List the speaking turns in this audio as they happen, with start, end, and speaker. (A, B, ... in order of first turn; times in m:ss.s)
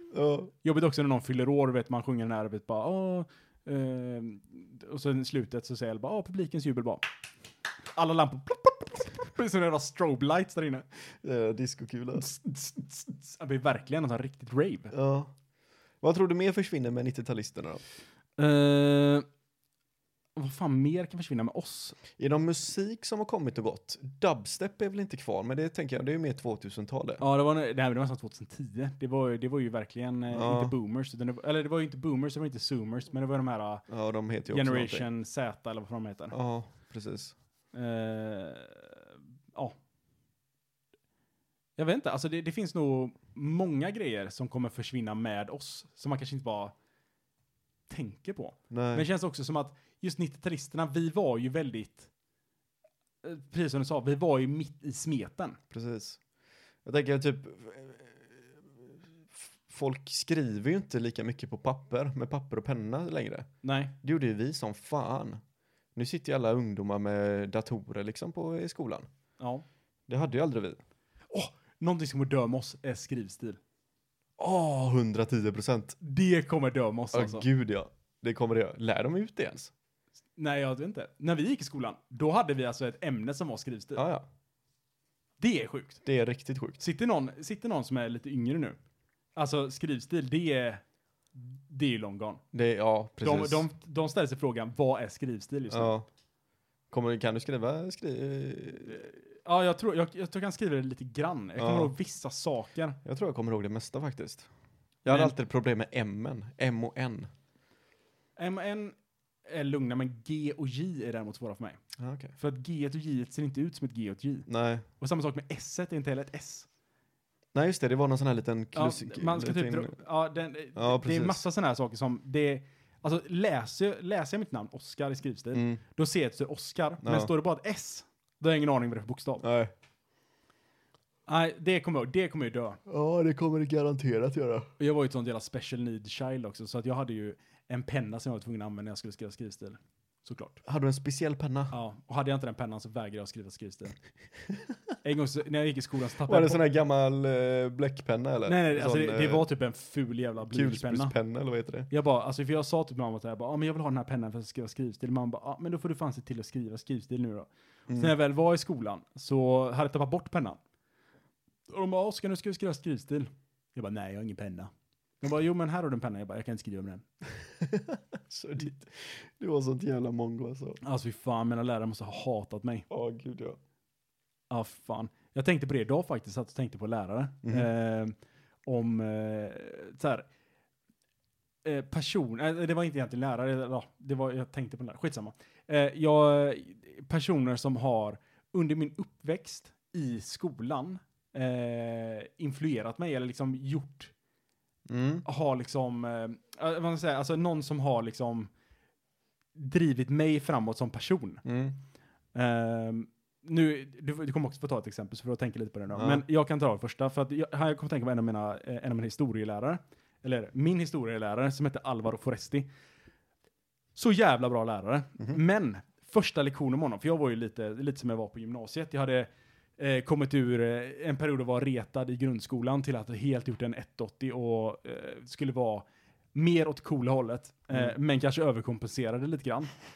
0:00.1-0:00.5 A
0:00.6-0:07.0 B
0:07.9-0:10.9 B
0:11.2-0:12.2 A
0:12.2-0:14.9 B
0:14.9-0:15.3 A
0:16.0-0:17.8 A
0:18.4-0:19.3 B
0:20.4-0:22.0 B
0:22.2-0:27.2 A
0:27.2-0:33.8 B
0:30.3-0:30.7 A
0:33.9-0:35.1 A
0:34.5-0:36.4 B
0:36.3-0:37.4 A
0:37.7-0:39.0 B
0:41.8-0:46.7 B
0:47.9-0:52.1 B
0:48.7-0:49.0 A
0:53.2-0:55.6 B
0:55.7-0:56.2 A
0:56.8-0:58.2 A
0:59.3-1:03.5 A
1:03.6-1:03.9 B
1:04.0-1:05.4 A
1:06.0-1:09.1 A
1:10.1-1:10.8 A
1:11.3-1:13.6 B
1:14.4-1:16.0 A
1:16.0-1:17.4 B
1:17.1-1:19.7 A
1:20.4-1:24.0 B
1:24.0-1:24.3 A
1:25.4-1:26.0 B
1:26.0-1:26.8 A
1:26.8-1:28.8 B
1:29.4-1:30.8 B
1:31.4-1:32.4 B
1:32.5-1:33.6 A
1:33.2-1:35.9 B
1:35.7-1:36.1 A
1:36.9-1:39.1 A
1:39.4-1:43.0 B
1:41.6-1:41.9 A
1:43.0-1:44.5 A
1:45.0-1:47.3 A
1:48.4-1:49.0 B
1:49.5-1:51.8 B
1:52.0-1:52.3 A
1:52.4-1:54.5 B
1:54.5-1:54.8 A
1:55.0-1:56.7 B
1:57.5-1:59.9 A
1:58.8-2:09.4 B
2:00.8-2:01.4 A
2:05.5-2:05.8 A
2:07.0-2:07.3 A
2:09.4-2:09.7 A
2:11.3-2:12.8 B
2:12.9-2:14.7 A
2:14.8-2:20.6 B
2:20.6-2:21.7 A
2:21.7-2:24.0 B
2:25.0-2:26.6 B
2:26.3-2:29.5 A
2:28.5-2:31.1 B
2:30.5-2:31.9 A
2:31.9-2:40.6 B
2:37.9-2:38.1 A
2:41.7-2:44.7 B
2:45.2-2:47.0 B
2:47.6-2:50.8 A
2:50.8-2:52.9 B
2:52.9-2:53.6 A
2:54.5-2:58.2 B
2:57.4-2:57.7 A
2:58.7-3:00.3 B
3:01.6-3:14.1 B
3:14.9-3:15.2 A
3:15.2-3:18.5 B
3:19.6-3:21.4 B
3:21.4-3:21.8 A
3:22.4-3:32.7 B
3:25.9-3:26.2 A
3:34.0-3:49.7 B